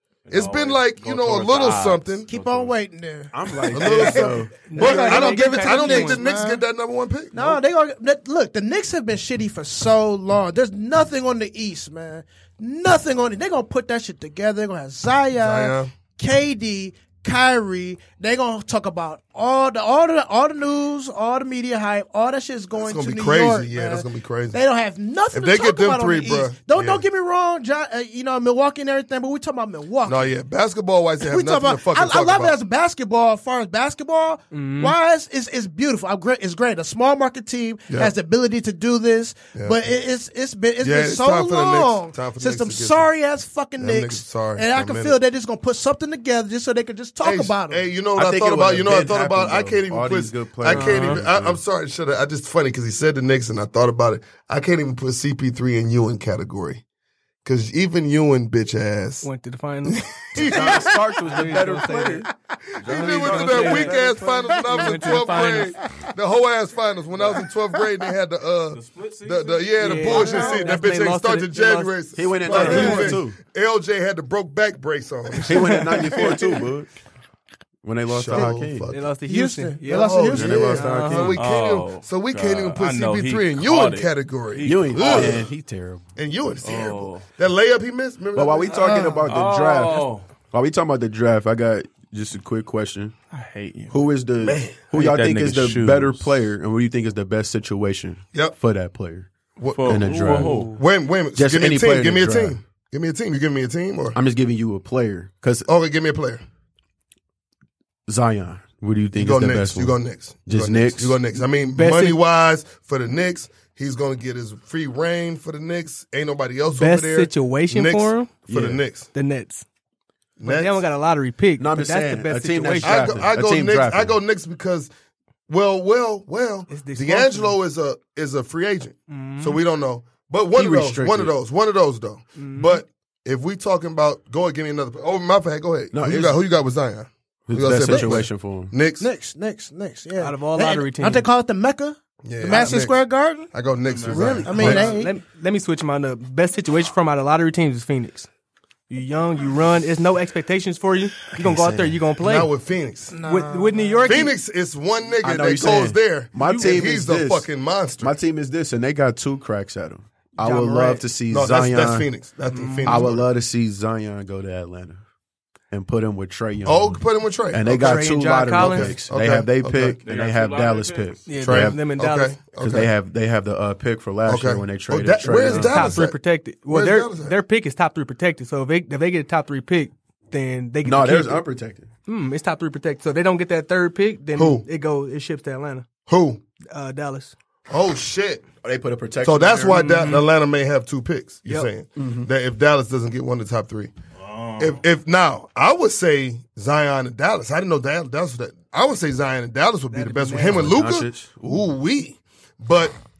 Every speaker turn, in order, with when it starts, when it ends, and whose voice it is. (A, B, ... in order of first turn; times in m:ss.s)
0:00.3-0:02.7 A
0:00.3-0:02.3 B
0:02.3-0:06.6 C
0:03.3-0:04.6 D
0:03.7-0:07.6 B
0:04.7-0:06.2 E
0:07.3-0:30.3 C
0:15.4-0:15.9 B
0:22.8-0:24.6 B
0:25.3-0:27.0 B
0:30.0-0:32.6 B
0:31.2-0:47.8 C
0:34.5-0:35.0 E
0:40.8-0:43.1 B
0:43.8-0:45.2 B
0:47.2-0:56.8 B
0:48.1-0:51.6 D
0:50.7-0:51.2 E
0:57.4-0:59.3 B
0:59.2-1:02.3 E
0:59.9-1:00.9 B
1:00.4-1:02.3 D
1:02.8-1:15.9 B
1:02.8-1:05.8 E
1:02.8-1:04.5 A
1:04.9-1:05.9 C
1:07.2-1:07.4 A
1:08.7-1:10.0 A
1:09.8-1:13.1 E
1:10.0-1:10.8 C
1:12.2-1:13.4 D
1:12.5-1:13.2 C
1:15.4-1:16.9 D
1:15.6-1:16.3 E
1:17.8-1:18.9 D
1:18.1-1:19.0 B
1:18.9-1:21.4 E
1:19.2-1:20.9 C
1:19.9-1:25.5 B
1:20.3-1:21.4 D
1:21.2-1:25.5 A
1:24.6-1:26.1 D
1:26.2-1:29.1 B
1:26.6-1:27.2 A
1:28.3-1:33.1 D
1:28.7-1:29.3 C
1:29.3-1:30.2 A
1:33.3-1:34.0 A
1:33.9-1:39.3 D
1:34.4-1:34.8 B
1:34.9-1:36.2 A
1:39.6-1:40.0 B
1:39.7-1:40.8 A
1:39.8-1:40.6 D
1:40.4-1:40.8 E
1:40.7-1:44.2 B
1:41.3-1:42.6 D
1:44.1-1:45.7 D
1:45.7-1:46.4 B
1:48.1-1:51.2 D
1:49.2-1:59.1 B
1:51.7-1:52.2 E
1:56.8-1:58.3 E
1:58.5-1:58.8 D
1:59.1-1:59.6 E
2:00.4-2:00.8 B
2:00.4-2:03.2 E
2:01.6-2:04.2 D
2:02.8-2:04.9 B
2:05.5-2:19.1 B
2:06.7-2:07.6 E
2:09.1-2:09.6 E
2:10.5-2:11.3 D
2:12.4-2:12.8 E
2:15.9-2:16.4 D
2:17.5-2:18.7 D
2:17.9-2:18.2 C
2:19.0-2:23.5 C
2:20.2-2:21.3 E
2:22.2-2:24.9 B
2:23.9-2:24.8 A
2:24.1-2:25.2 C
2:24.5-2:28.3 E
2:28.9-2:32.5 E
2:31.4-2:32.0 D
2:32.2-2:33.1 B
2:33.1-2:34.2 C
2:33.2-2:34.3 E
2:34.1-2:38.1 B
2:35.2-2:42.1 D
2:36.4-2:36.8 E
2:40.4-2:41.0 E
2:41.3-2:43.3 B
2:42.5-2:43.1 E
2:42.8-2:45.0 D
2:45.7-2:51.8 D
2:46.6-2:50.0 B
2:47.8-2:48.9 E
2:50.0-2:51.2 A
2:51.3-2:52.4 E
2:51.4-2:52.9 B
2:52.6-2:56.0 D
2:54.3-2:57.3 B
2:55.5-3:01.4 E
3:00.8-3:01.9 D
3:02.1-3:05.8 E
3:04.4-3:04.6 B
3:06.1-3:06.4 B
3:06.7-3:07.3 E
3:07.7-3:08.4 B
3:08.6-3:10.1 D
3:09.2-3:13.9 B
3:09.7-3:10.2 E
3:12.0-3:12.3 D
3:14.2-3:14.8 A
3:14.6-3:23.0 B
3:19.9-3:20.7 E
3:20.3-3:21.7 D